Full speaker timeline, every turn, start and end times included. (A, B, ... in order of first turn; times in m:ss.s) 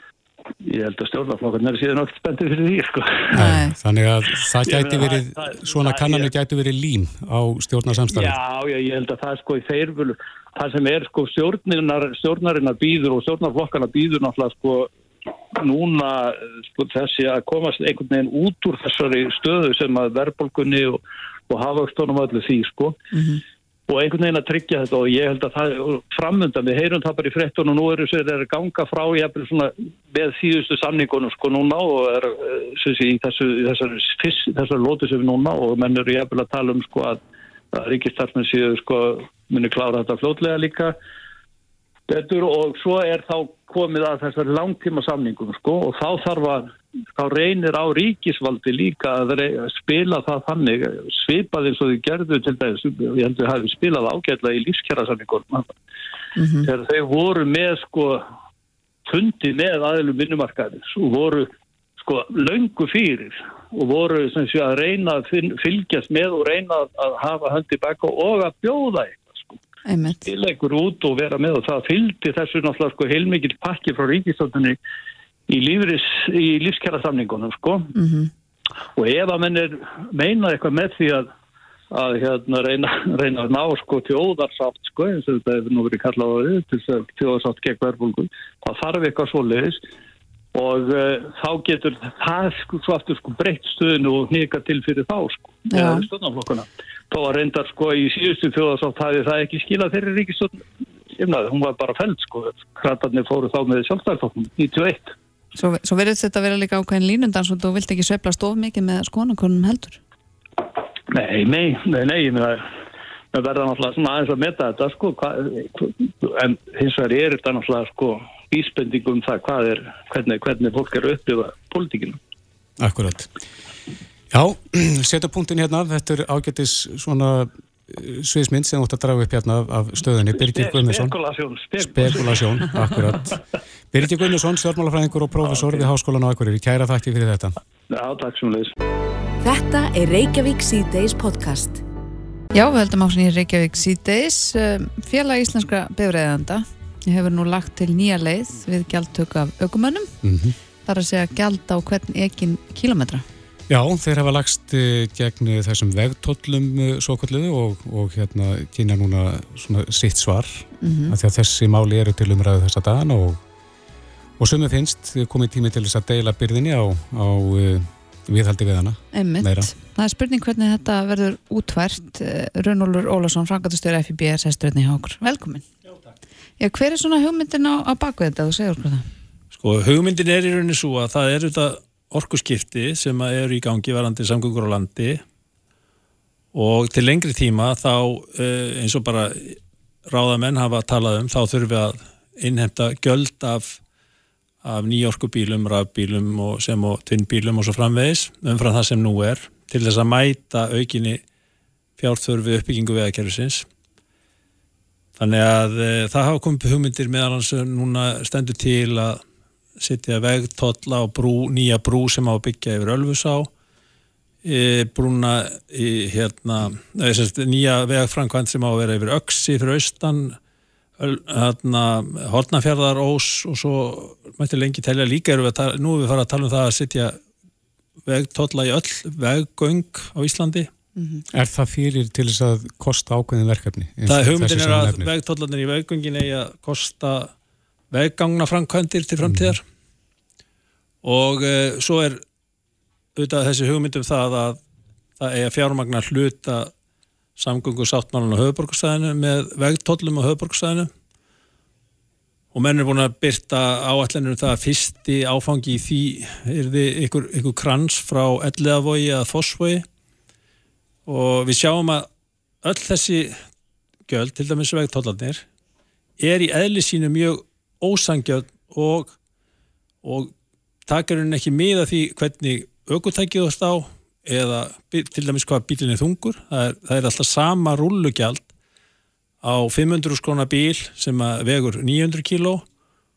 0:00.6-0:03.3 A
0:03.3-0:03.7 B
0:03.3-0:08.4 C
0:04.6-0:06.3 A
0:08.1-0:14.9 A
0:15.5-0:23.0 A
0:23.1-0:23.4 B
0:23.9-0:37.2 A
0:37.7-0:40.9 A
0:42.1-0:55.7 A
0:56.4-0:56.7 B
0:56.6-0:58.2 A
0:59.0-1:09.6 A
1:09.8-1:10.2 B
1:10.2-1:14.8 A
1:15.5-1:17.9 A
1:17.9-1:18.3 B
1:19.0-1:21.3 A
1:21.9-1:29.8 A
1:30.5-1:45.1 A
1:35.7-1:36.0 B
1:45.5-1:50.0 B
1:51.1-1:52.6 A
1:53.3-2:02.2 A
2:02.8-2:03.3 C
2:04.3-2:11.1 C
2:10.4-2:12.8 A
2:11.8-2:13.4 C
2:13.9-2:17.6 C
2:15.4-2:15.9 A
2:17.9-2:18.7 A
2:19.4-2:21.8 D
2:22.5-2:30.1 B
2:30.2-2:30.6 C
2:30.8-2:33.2 B
2:33.7-2:43.4 C
2:40.8-2:41.1 B
2:44.4-2:49.7 C
2:49.1-2:55.6 B
2:56.6-2:59.0 B
2:59.5-3:05.2 E
3:06.5-3:13.8 E
3:14.6-3:21.2 E
3:22.0-3:23.7 E
3:25.2-3:29.2 E
3:29.8-3:33.5 E
3:34.4-3:40.4 E
3:41.0-3:47.2 E
3:48.0-3:50.7 E
3:51.0-3:51.2 B
3:51.3-3:55.1 C
3:54.1-3:57.3 E
3:57.9-3:59.6 E
3:59.2-3:59.6 C
4:01.0-4:02.2 E
4:03.2-4:04.6 E
4:05.2-4:06.7 E
4:07.4-4:10.9 E
4:12.5-4:19.8 E
4:21.0-4:22.1 E
4:22.6-4:23.4 E
4:24.1-4:25.4 E
4:26.2-4:29.2 E
4:30.0-4:30.3 E
4:30.9-4:38.5 E
4:39.4-4:42.6 E